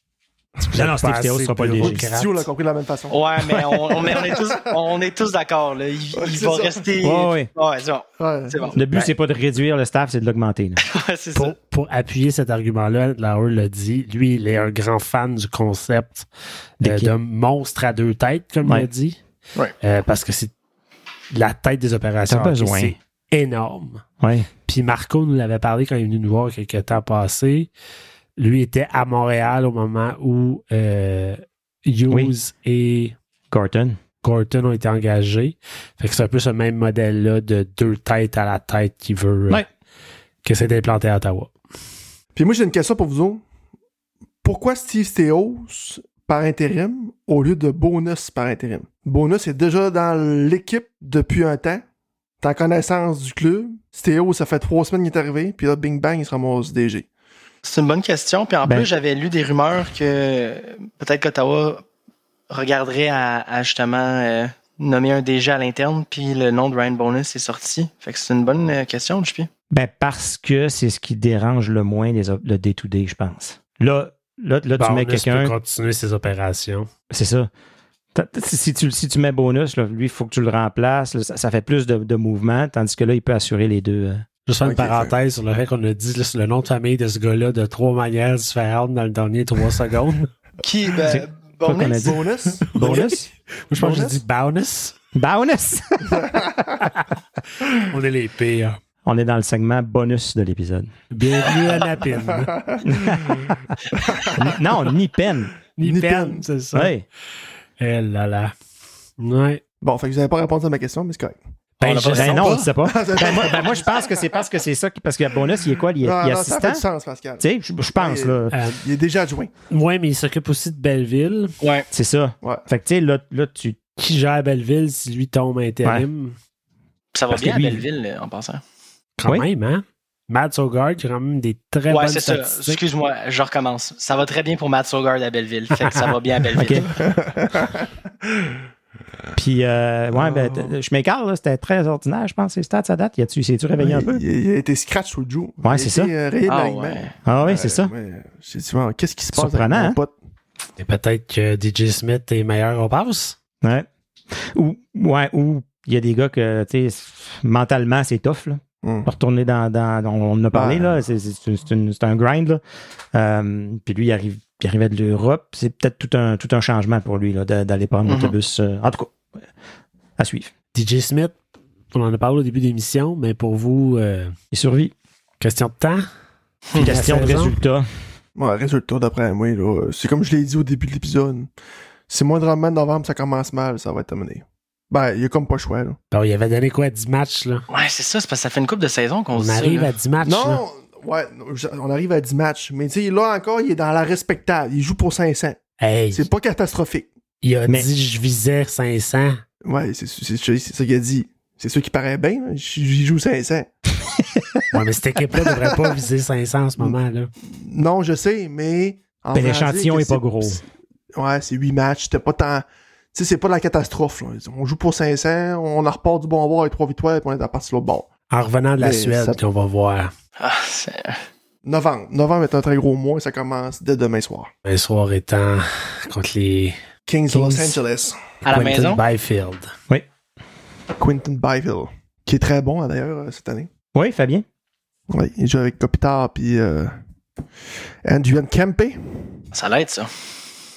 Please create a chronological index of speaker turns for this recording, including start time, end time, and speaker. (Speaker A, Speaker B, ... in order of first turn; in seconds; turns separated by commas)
Speaker A: 0.6-2.0, Speaker B: 0.7-2.5, Speaker C: 1.8-3.2, Speaker D: 3.1-9.1, Speaker A: 3.5-3.8, Speaker C: 4.0-4.6, Speaker C: 6.1-6.9, Speaker A: 7.0-7.5, Speaker C: 8.2-8.8, Speaker A: 8.7-10.8, Speaker D: 10.8-11.5, Speaker B: 11.3-16.3, Speaker B: 16.8-19.2, Speaker A: 16.8-17.1, Speaker B: 19.8-20.5, Speaker B: 21.3-24.0, Speaker A: 22.3-22.9, Speaker A: 24.2-24.5, Speaker B: 24.6-27.7, Speaker B: 28.4-33.1, Speaker A: 33.5-34.0, Speaker B: 34.2-39.6, Speaker B: 40.4-41.5, Speaker C: 42.3-43.4, Speaker C: 44.4-51.8, Speaker C: 52.4-57.1, Speaker D: 57.6-61.8, Speaker D: 62.5-69.5, Speaker A: 69.7-75.5, Speaker B: 74.8-76.9, Speaker A: 77.1-77.5, Speaker A: 78.1-84.2, Speaker B: 84.5-90.3, Speaker C: 84.6-85.1, Speaker D: 90.6-92.2, Speaker A: 91.0-93.3, Speaker C: 92.0-93.1, Speaker B: 92.8-93.1, Speaker B: 93.7-95.0, Speaker C: 93.7-94.2, Speaker A: 95.1-96.9, Speaker C: 96.0-96.8, Speaker B: 97.9-98.8, Speaker A: 99.0-100.9, Speaker B: 101.1-102.5, Speaker C: 102.2-104.6, Speaker A: 102.8-103.4, Speaker A: 104.3-105.5, Speaker B: 105.8-106.9, Speaker C: 105.8-106.5, Speaker A: 106.7-107.0, Speaker B: 107.8-108.5, Speaker B: 109.2-109.6, Speaker C: 109.8-111.4, Speaker B: 111.8-112.7, Speaker D: 111.8-112.6, Speaker A: 112.1-116.8, Speaker C: 112.8-114.2, Speaker C: 116.0-117.4, Speaker A: 117.4-118.5, Speaker C: 118.0-119.5, Speaker B: 118.5-118.8, Speaker B: 119.7-121.5, Speaker D: 121.6-121.9, Speaker A: 121.9-123.8, Speaker B: 124.0-126.3, Speaker D: 127.1-128.6, Speaker A: 127.3-127.8, Speaker B: 129.2-132.8, Speaker D: 131.9-136.9, Speaker A: 136.6-136.9, Speaker C: 136.9-138.6, Speaker A: 139.3-144.2, Speaker C: 140.1-140.8, Speaker C: 143.8-150.1, Speaker A: 145.6-146.1, Speaker D: 146.5-147.1, Speaker A: 147.2-147.9, Speaker A: 149.3-150.0, Speaker B: 150.8-153.4, Speaker A: 153.6-162.6, Speaker C: 158.8-159.1, Speaker C: 160.5-161.0, Speaker A: 163.1-169.1, Speaker D: 168.1-168.3, Speaker A: 170.2-170.5, Speaker B: 170.7-171.4, Speaker B: 171.9-174.3, Speaker A: 174.5-174.9, Speaker B: 175.4-176.1, Speaker B: 176.7-177.6, Speaker A: 176.8-177.9, Speaker C: 178.3-181.5, Speaker C: 182.1-186.0, Speaker B: 186.1-187.6, Speaker D: 187.7-189.9, Speaker B: 189.3-190.6, Speaker C: 190.2-195.6, Speaker B: 195.8-196.3, Speaker C: 196.1-197.1, Speaker B: 197.4-199.4, Speaker C: 199.6-203.7, Speaker B: 204.7-207.3, Speaker C: 205.3-205.9, Speaker C: 207.5-210.6, Speaker A: 209.3-210.6, Speaker C: 211.1-218.1, Speaker B: 218.3-220.1, Speaker C: 218.8-219.4, Speaker D: 220.4-221.2, Speaker C: 221.6-224.5, Speaker B: 224.6-226.8, Speaker C: 227.1-228.2, Speaker B: 227.3-227.8, Speaker B: 228.4-229.7, Speaker D: 228.4-229.0, Speaker A: 228.5-228.9, Speaker C: 231.0-233.7, Speaker A: 233.9-234.4, Speaker C: 235.1-236.9, Speaker C: 238.0-239.3, Speaker D: 239.5-240.1